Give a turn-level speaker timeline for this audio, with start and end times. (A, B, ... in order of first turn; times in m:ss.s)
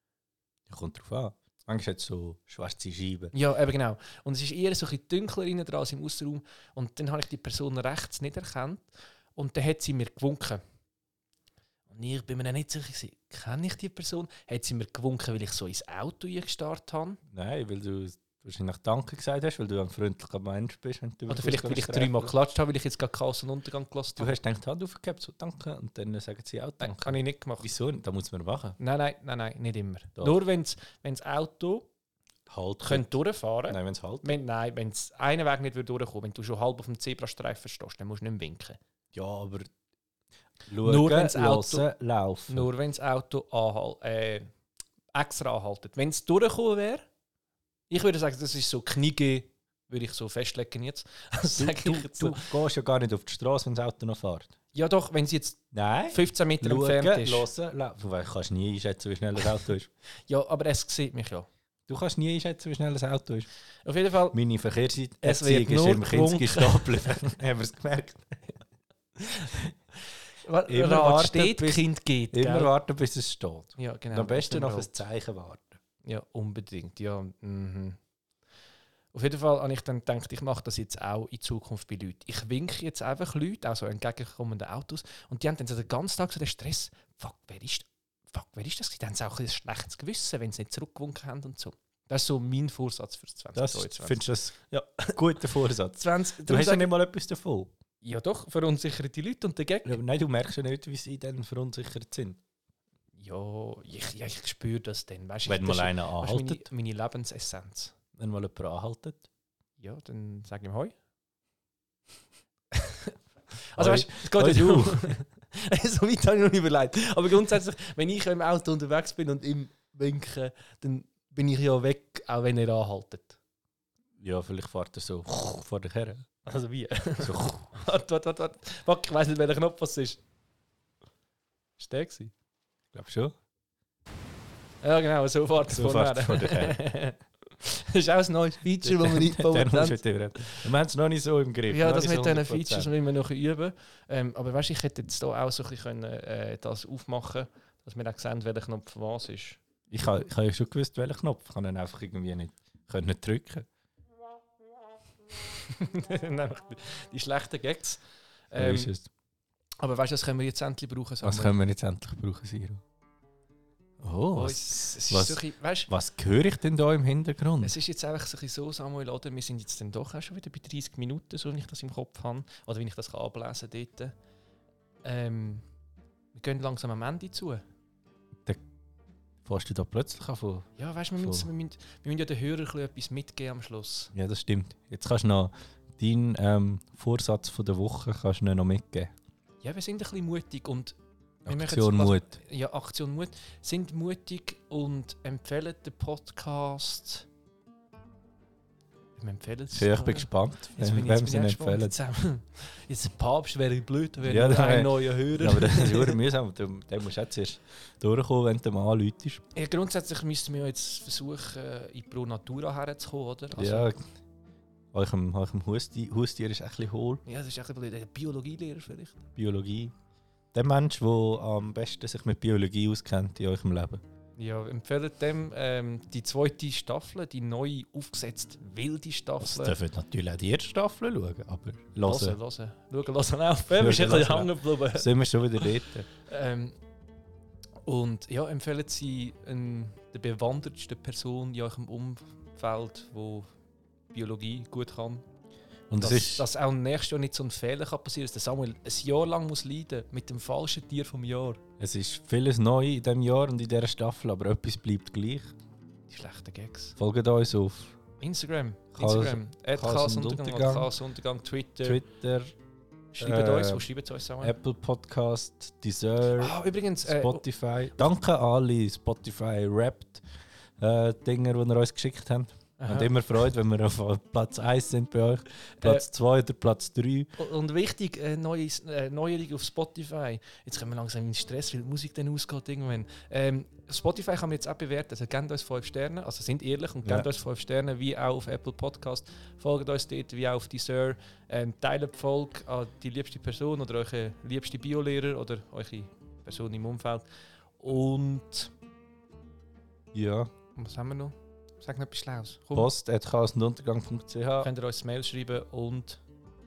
0:00.7-0:03.3 A
0:03.3-0:10.6 B
0:11.9-0:17.2 B
0:17.3-0:22.3 A
0:21.3-0:24.4 B
0:24.2-0:28.8 A
0:26.8-0:27.7 B
0:28.8-0:31.9 B
0:32.5-0:33.2 A
0:32.8-0:38.8 B
0:33.7-0:34.4 A
0:39.1-0:39.7 A
0:40.7-0:42.7 A
0:40.8-0:41.9 B
0:42.5-0:44.5 B
0:45.1-0:47.1 B
0:47.9-0:52.5 B
0:51.5-0:54.5 A
0:54.7-0:57.5 B
0:55.7-0:59.9 A
1:00.3-1:01.5 B
1:01.9-1:03.5 A
1:03.8-1:04.4 B
1:04.3-1:08.6 A
1:05.2-1:07.3 B
1:09.2-1:09.5 B
1:10.4-1:12.7 B
1:10.7-1:15.8 A
1:13.8-1:14.9 B
1:16.0-1:18.0 B
1:19.1-1:35.2 B
1:33.6-1:34.6 A
1:35.1-1:37.7 A
1:36.0-1:36.9 B
1:38.0-1:40.0 B
1:39.9-1:42.4 A
1:43.2-1:47.9 B
1:45.5-1:46.7 A
1:48.2-1:49.3 A
1:49.8-1:50.9 B
1:52.7-1:53.2 B
1:53.7-2:03.4 B
1:53.8-1:55.2 A
2:04.2-2:06.3 A
2:06.4-2:10.2 B
2:07.2-2:07.7 A
2:11.8-2:12.3 B
2:12.9-2:13.4 A
2:14.8-2:20.0 B
2:15.7-2:16.8 A
2:18.8-2:22.9 A
2:21.7-2:29.6 B
2:29.9-2:33.7 A
2:35.4-2:38.9 B
2:38.6-2:39.1 A
2:39.8-2:41.6 B
2:41.2-2:42.8 A
2:44.0-2:47.7 A
2:44.3-2:45.9 B
2:47.6-2:54.1 B
2:55.0-2:55.6 B
2:56.3-2:57.6 B
2:59.4-3:01.5 A
3:00.8-3:04.1 B
3:04.1-3:09.1 A
3:09.6-3:17.3 B
3:11.4-3:12.4 A
3:19.2-3:26.2 B
3:19.8-3:22.0 A
3:24.2-3:29.4 A
3:29.5-3:33.9 B
3:33.6-3:34.1 A
3:34.9-3:37.2 A
3:37.2-3:39.3 B
3:39.4-3:39.9 A
3:40.5-3:44.0 A
3:44.4-3:49.8 B
3:49.4-3:52.4 A
3:52.0-3:56.8 B
3:53.7-3:56.1 A
3:57.8-4:03.5 B
4:04.1-4:05.2 B
4:05.9-4:06.5 A
4:06.0-4:11.6 B
4:11.8-4:15.5 A
4:16.1-4:17.0 B
4:17.0-4:18.0 A
4:18.2-4:22.0 B
4:18.9-4:20.9 A
4:21.8-4:22.5 A
4:23.1-4:24.6 B
4:23.2-4:23.8 A
4:24.4-4:30.2 A
4:26.4-4:27.5 B
4:30.8-4:37.3 A
4:32.8-4:33.2 B
4:35.8-4:36.1 B
4:37.4-4:57.2 B
4:57.8-4:58.7 B
5:00.1-5:00.5 A
5:00.8-5:02.9 B
5:02.7-5:04.7 A
5:04.6-5:06.2 B